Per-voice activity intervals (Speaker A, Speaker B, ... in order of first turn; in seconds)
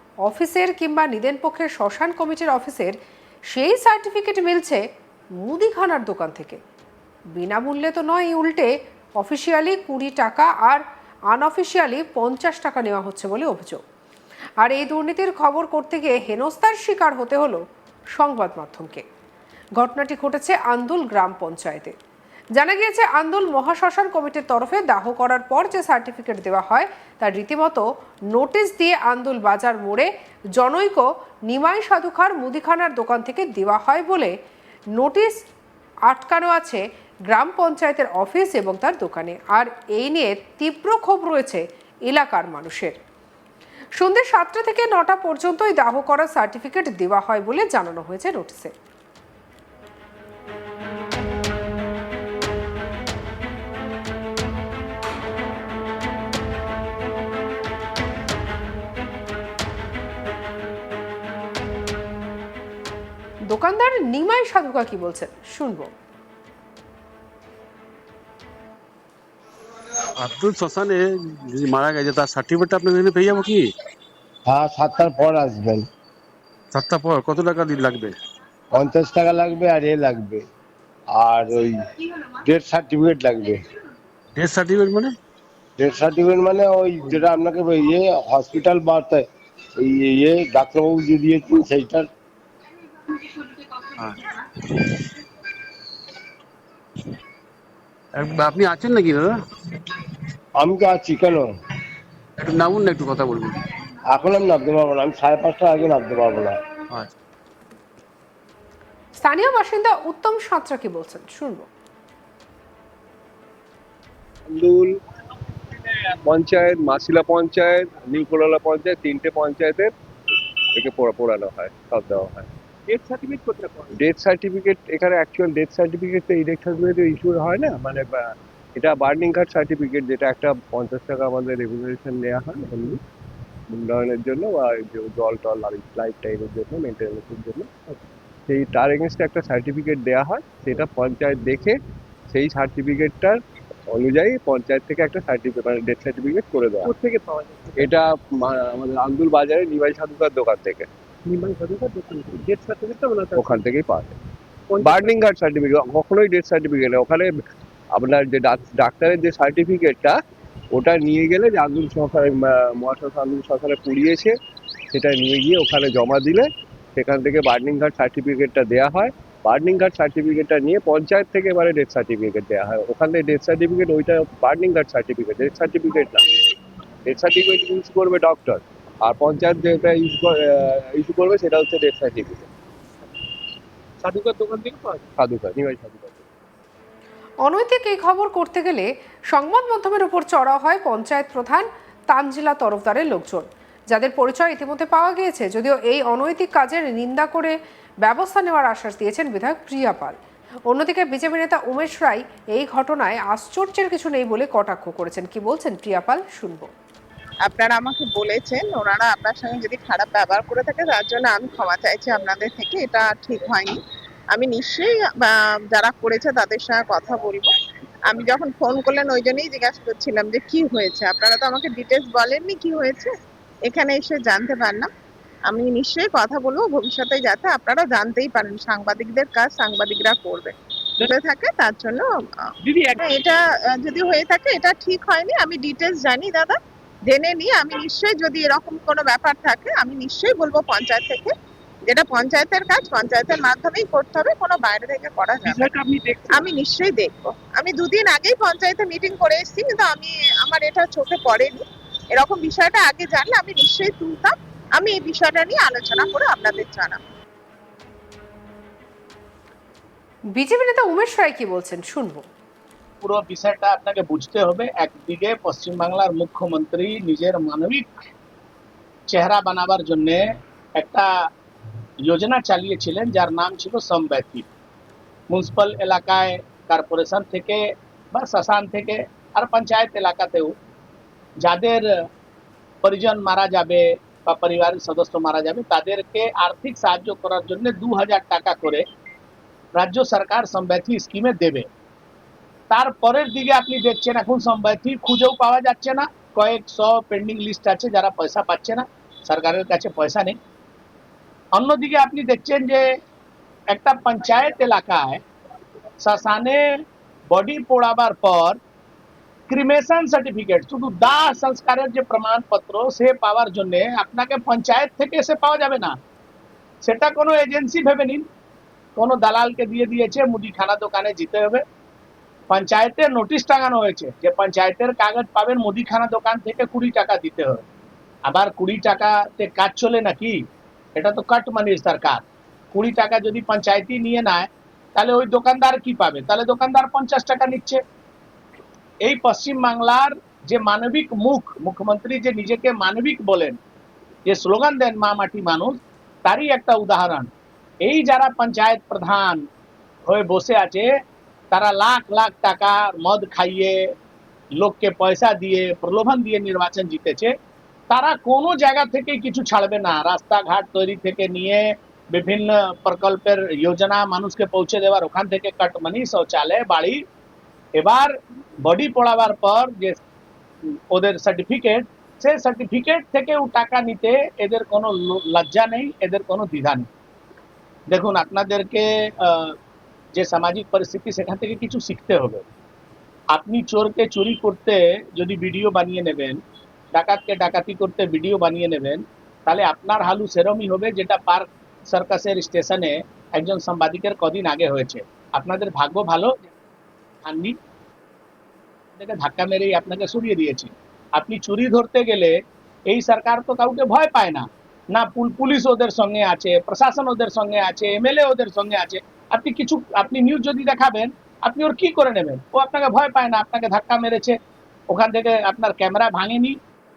Speaker A: 0.2-3.0, 3.5-4.8, 5.4-6.6, 7.3-13.8, 14.6-17.6, 18.1-19.0, 19.8-21.9, 22.6-34.3, 34.9-35.4, 36.1-43.0, 44.0-48.7, 63.5-65.9, 109.2-111.7, 187.4-200.2, 200.7-206.7, 260.3-262.3
Speaker B: 70.2-73.7, 76.7-78.1, 84.3-85.1, 98.1-99.4, 102.4-103.6
Speaker C: 74.5-75.8, 78.7-80.4, 81.1-83.6, 85.8-89.2, 89.8-92.1, 100.6-101.5, 104.1-106.5
Speaker D: 114.5-115.0, 116.1-119.9, 120.7-122.5, 123.9-133.0, 133.7-137.7, 138.5-141.8, 142.3-146.9, 147.8-150.9, 153.3-154.1, 154.8-157.3, 157.9-160.2, 160.7-164.3, 164.9-176.2, 177.0-182.5, 185.2-186.2
Speaker E: 122.9-124.0, 146.8-147.9, 151.2-153.6, 154.7-155.2, 184.0-185.0, 232.7-233.0, 245.4-246.4
Speaker F: 207.4-213.8, 214.3-217.5, 218.1-223.1, 223.7-224.9, 225.5-232.1, 233.0-236.6, 237.1-241.3, 241.9-245.8, 246.3-251.6, 252.2-257.0
Speaker G: 263.0-267.9, 269.1-270.2, 270.7-271.3, 272.0-274.5, 275.3-277.6, 278.1-280.5, 281.4-281.9, 282.8-288.8, 289.8-291.7, 292.7-300.4, 301.5-302.9, 303.7-305.2, 306.0-306.7, 307.3-308.6, 309.5-315.9, 316.8-318.2, 318.9-321.6, 322.5-327.6, 328.3-330.4, 330.9-332.2, 332.7-337.8, 339.0-343.6, 344.3-347.3, 347.8-349.4, 350.1-350.9, 351.5-353.8, 354.6-357.3, 357.9-367.0, 367.8-370.0, 370.7-376.9, 377.9-379.6, 380.2-382.4, 383.3-386.4, 386.9-396.5, 397.2-397.5, 398.9-414.4, 414.9-416.6